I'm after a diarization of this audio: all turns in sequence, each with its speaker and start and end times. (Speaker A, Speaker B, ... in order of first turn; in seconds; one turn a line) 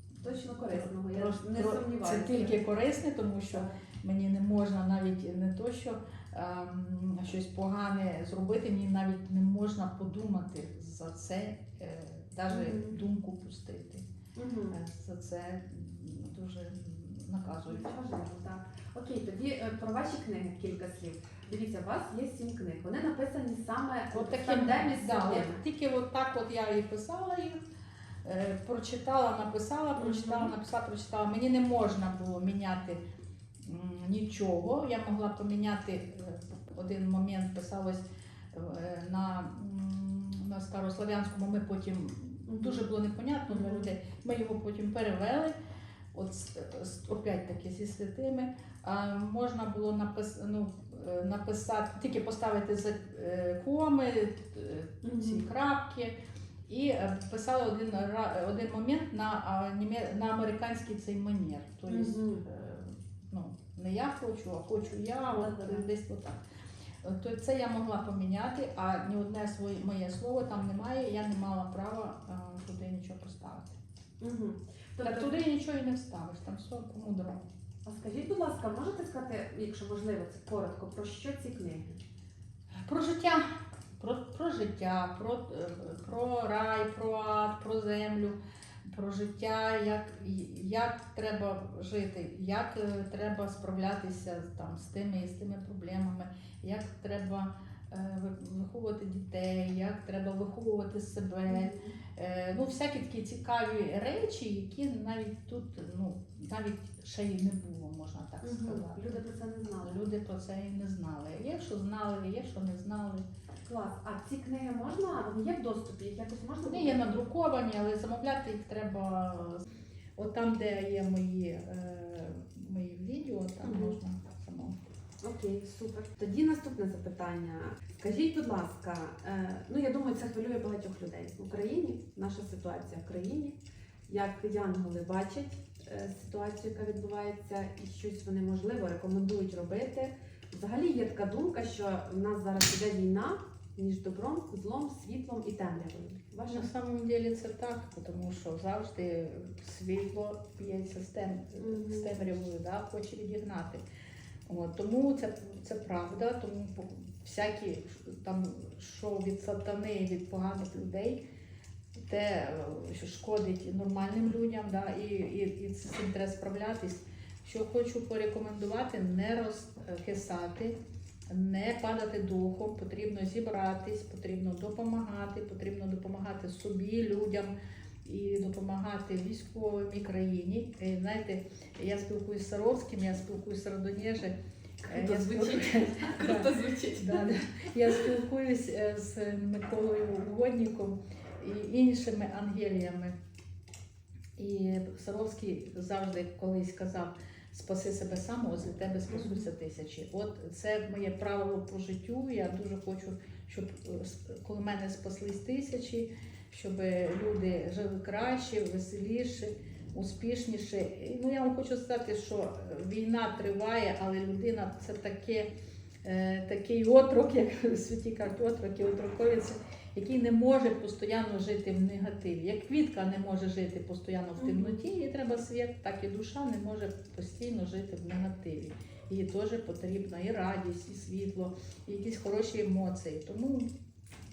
Speaker A: 0.2-2.6
Speaker B: 0.7-14.1
Speaker A: 12.5-13.0
Speaker A: 14.3-14.8
Speaker B: 14.7-18.0
Speaker A: 17.7-25.6
Speaker B: 24.1-27.6
Speaker B: 28.2-33.0
Speaker A: 30.0-30.5
Speaker B: 33.6-45.5
Speaker A: 42.5-42.8
Speaker A: 43.5-43.9
Speaker B: 46.1-56.1
Speaker A: 55.0-55.4
Speaker B: 56.7-66.4
Speaker A: 61.9-62.5
Speaker A: 65.3-65.8
Speaker B: 67.0-73.8
Speaker A: 74.2-75.4
Speaker B: 75.0-77.5
Speaker A: 77.8-82.0
Speaker B: 82.7-83.4
Speaker B: 84.0-109.1
Speaker A: 101.5-102.0
Speaker A: 108.4-110.0
Speaker B: 109.8-113.3
Speaker A: 113.7-117.1
Speaker B: 116.7-119.6
Speaker B: 120.2-124.8
Speaker A: 123.6-124.0
Speaker A: 125.2-133.6
Speaker A: 134.1-146.7
Speaker B: 146.5-153.8
Speaker A: 151.6-152.2
Speaker B: 154.5-161.2
Speaker B: 162.0-170.8
Speaker B: 171.3-177.5
Speaker B: 178.0-193.2
Speaker A: 184.8-188.1
Speaker B: 194.4-215.5
Speaker A: 199.1-199.5
Speaker B: 216.0-233.7
Speaker A: 224.4-224.8